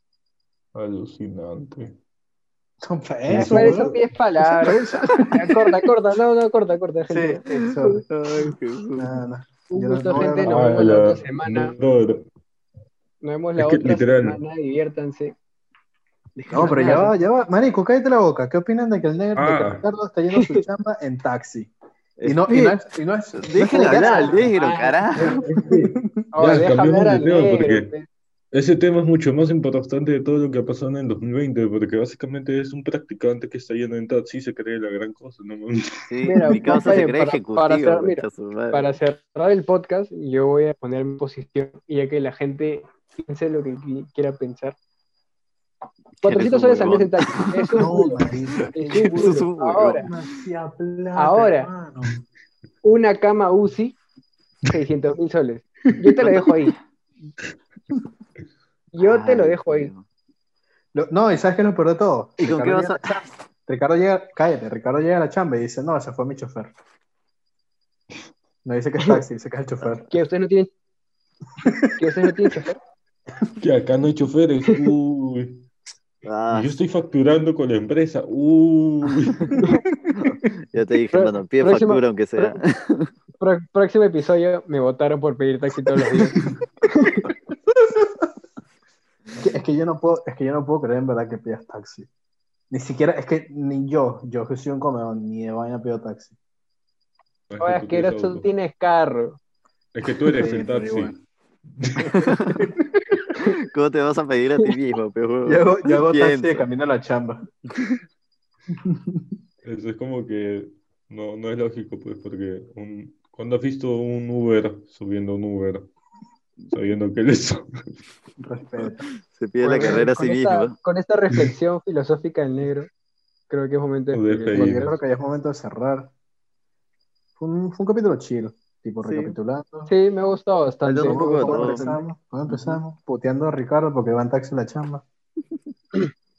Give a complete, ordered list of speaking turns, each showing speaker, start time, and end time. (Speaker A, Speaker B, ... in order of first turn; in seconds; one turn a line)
Speaker A: 0.7-1.9
Speaker B: 2.8-5.7
Speaker A: 3.3-3.9
Speaker C: 3.5-7.9
Speaker B: 7.1-8.1
Speaker D: 8.1-9.2
Speaker B: 8.9-10.8
Speaker C: 9.7-11.7
Speaker A: 10.4-12.3
Speaker C: 13.2-15.3
Speaker A: 13.6-14.4
Speaker C: 16.4-17.1
Speaker B: 16.5-21.7
Speaker A: 19.4-19.9
Speaker C: 20.3-20.6
Speaker D: 22.2-22.9
Speaker B: 22.2-24.5
Speaker D: 23.4-25.4
Speaker C: 23.7-28.1
Speaker B: 25.2-26.1
Speaker A: 26.4-27.9
Speaker A: 28.5-36.1
Speaker D: 36.1-38.9
Speaker C: 36.2-44.8
Speaker D: 46.2-48.1
Speaker C: 46.2-48.2
Speaker B: 47.8-52.2
Speaker C: 48.7-50.1
Speaker D: 49.1-50.2
Speaker C: 51.1-51.7
Speaker C: 52.8-54.0
Speaker C: 54.7-56.7
Speaker D: 56.2-56.5
Speaker C: 58.9-59.9
Speaker D: 59.0-60.0
Speaker B: 60.9-63.0
Speaker D: 62.4-63.2
Speaker B: 63.7-66.7
Speaker B: 68.6-70.1
Speaker C: 70.1-70.7
Speaker B: 71.6-72.1
Speaker C: 72.0-72.8
Speaker A: 73.6-75.6
Speaker D: 76.2-76.7
Speaker A: 76.5-79.6
Speaker B: 79.6-80.2
Speaker D: 80.1-83.1
Speaker C: 81.1-82.6
Speaker C: 83.4-87.2
Speaker B: 89.4-92.1
Speaker B: 92.7-96.3
Speaker A: 97.5-98.5
Speaker C: 97.6-99.4
Speaker A: 99.9-101.2
Speaker B: 100.2-101.1
Speaker A: 101.8-102.1
Speaker D: 102.2-102.7
Speaker B: 102.5-103.2
Speaker D: 103.3-106.7
Speaker B: 105.5-107.5
Speaker B: 108.7-109.2
Speaker A: 109.6-115.9
Speaker A: 116.7-117.7
Speaker B: 118.4-119.0
Speaker D: 118.9-120.7
Speaker C: 119.6-122.9
Speaker C: 123.5-124.9
Speaker A: 124.1-125.0
Speaker B: 124.5-126.1
Speaker B: 127.4-129.9
Speaker D: 129.0-129.4
Speaker C: 129.9-132.0
Speaker D: 130.8-131.8
Speaker B: 131.0-135.0
Speaker D: 132.5-132.8